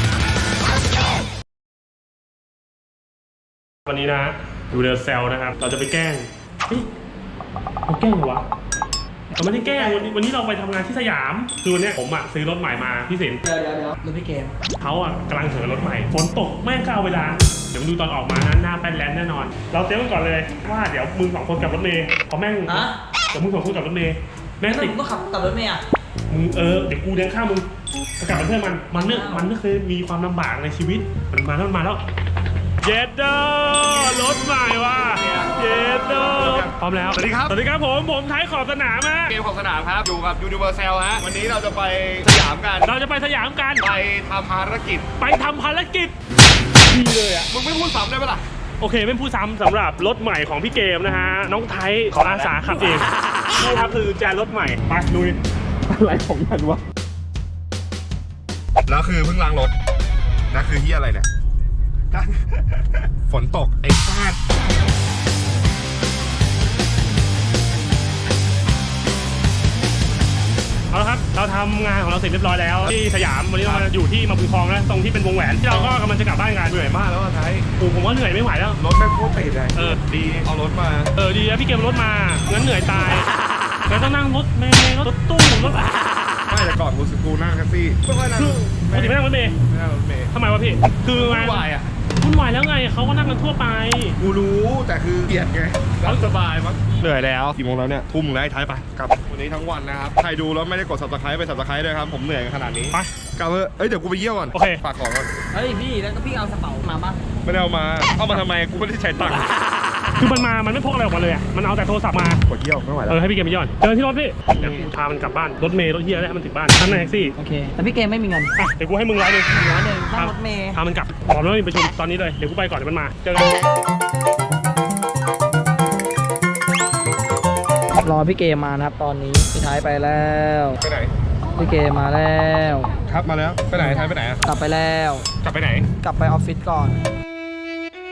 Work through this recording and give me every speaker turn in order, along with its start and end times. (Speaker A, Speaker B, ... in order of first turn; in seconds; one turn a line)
Speaker A: 3.9-6.9
Speaker A: 7.9-8.4
Speaker A: 9.3-13.4
Speaker B: 9.7-10.1
Speaker B: 13.4-14.5
Speaker A: 14.8-25.0
Speaker B: 22.7-23.0
Speaker B: 24.7-25.8
Speaker A: 26.3-27.7
Speaker A: 28.2-32.0
Speaker B: 29.1-29.5
Speaker A: 32.8-39.3
Speaker C: 35.2-35.6
Speaker C: 36.1-37.6
Speaker C: 39.3-42.9
Speaker A: 42.8-43.9
Speaker C: 43.8-45.1
Speaker A: 45.2-46.1
Speaker A: 46.8-47.5
Speaker C: 47.5-48.4
Speaker A: 48.8-55.4
Speaker C: 52.1-52.9
Speaker C: 55.9-56.8
Speaker C: 58.9-59.7
Speaker C: 60.5-61.3
Speaker C: 62.1-64.4
Speaker A: 70.9-76.8
Speaker C: 73.6-73.9
Speaker C: 75.7-76.0
Speaker C: 76.7-77.7
Speaker A: 77.8-78.8
Speaker C: 78.8-81.1
Speaker A: 81.2-83.3
Speaker A: 83.9-85.9
Speaker C: 86.5-90.3
Speaker A: 88.3-89.6
Speaker A: 90.3-91.7
Speaker C: 91.1-91.9
Speaker A: 92.2-94.2
Speaker C: 94.2-105.3
Speaker A: 96.0-96.3
Speaker A: 104.5-104.8
Speaker B: 105.5-107.2
Speaker C: 107.4-109.5
Speaker A: 110.2-112.4
Speaker C: 112.5-113.2
Speaker A: 113.1-117.3
Speaker B: 117.4-118.5
Speaker A: 118.6-119.5
Speaker B: 119.5-120.8
Speaker A: 120.1-123.5
Speaker B: 128.0-130.8
Speaker C: 130.8-131.1
Speaker B: 131.6-132.9
Speaker C: 133.1-134.4
Speaker B: 133.8-135.3
Speaker C: 135.4-135.9
Speaker B: 136.0-137.0